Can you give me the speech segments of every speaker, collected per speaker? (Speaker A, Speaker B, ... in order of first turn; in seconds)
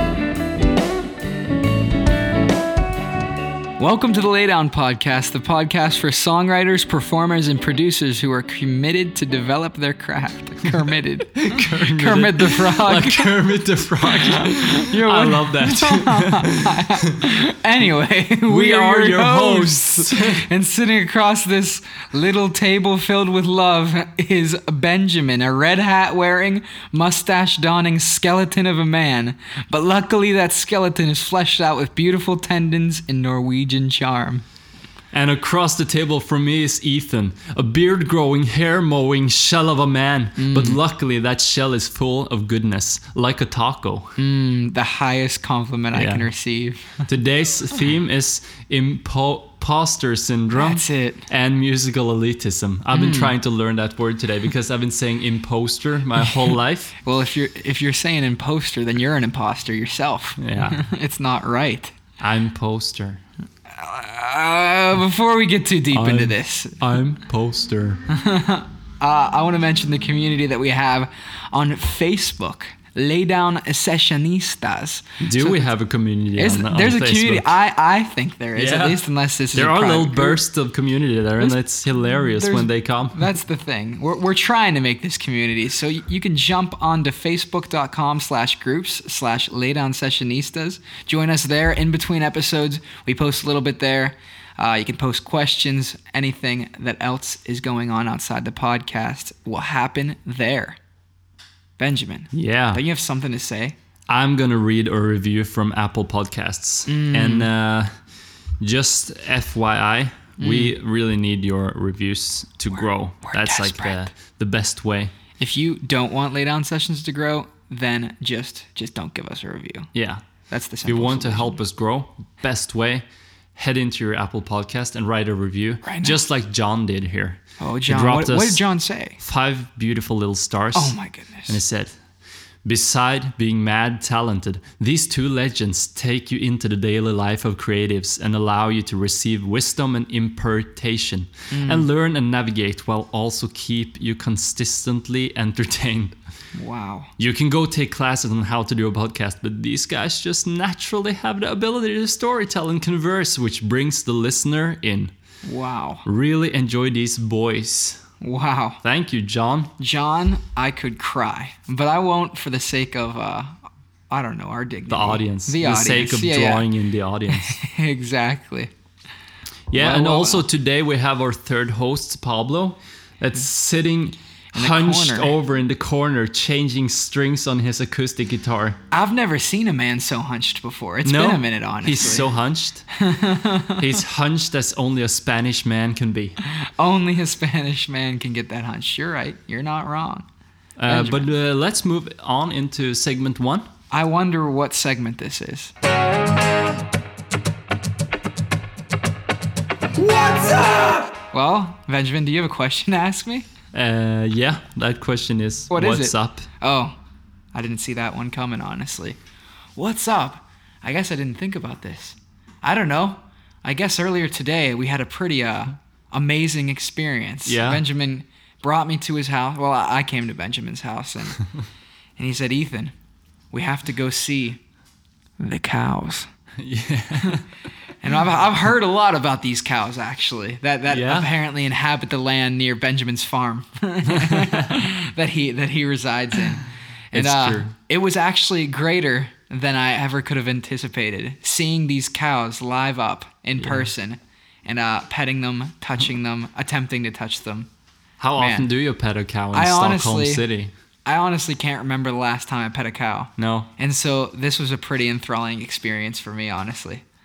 Speaker A: 3.8-13.3, 14.0-34.4, 40.4-40.8, 44.2-47.1, 50.5-51.3, 52.9-53.3, 57.0-61.9, 63.7-66.8, 68.1-75.7, 76.3-80.4, 82.1-100.8, 101.8-103.8, 106.8-107.5, 110.4-110.7, 112.8-114.1, 115.4-119.9, 120.5-121.6, 125.8-126.2, 127.6-129.2, 130.7-131.6, 141.5-141.9, 146.5-147.1, 155.4-156.1, 158.2-158.8, 159.8-166.7, 167.3-168.7, 169.7-170.4, 174.5-175.3, 178.9-182.3, 182.9-183.9, 186.4-190.2, 190.9-191.2, 193.9-195.7, 200.0-203.5, 205.7-206.9, 207.5-209.2, 209.8-221.4, 222.2-222.9, 223.5-224.6, 225.4-226.3, 228.0-247.7, 248.4-248.7, 249.5-250.4, 251.1-257.0
Speaker B: 10.9-17.2, 18.4-20.5, 35.1-44.2, 45.9-46.3, 47.0-56.9, 60.4-60.9, 62.2-63.2, 65.9-68.0, 75.2-77.5, 78.5-83.3, 102.3-102.8, 104.1-107.9, 108.6-115.1, 119.9-120.2, 120.8-123.0, 123.5-128.6, 129.2-130.9, 131.5-132.0, 132.6-146.2, 147.2-155.1, 156.0-158.0, 158.8-159.7, 164.9-167.6, 169.7-178.8, 181.0-182.9, 183.8-186.4, 190.8-193.7, 203.7-206.5, 217.4-217.8, 226.6-227.4, 230.9-231.3, 234.1-234.8, 237.1-237.7, 243.6-243.9, 248.2-250.7, 253.4-253.7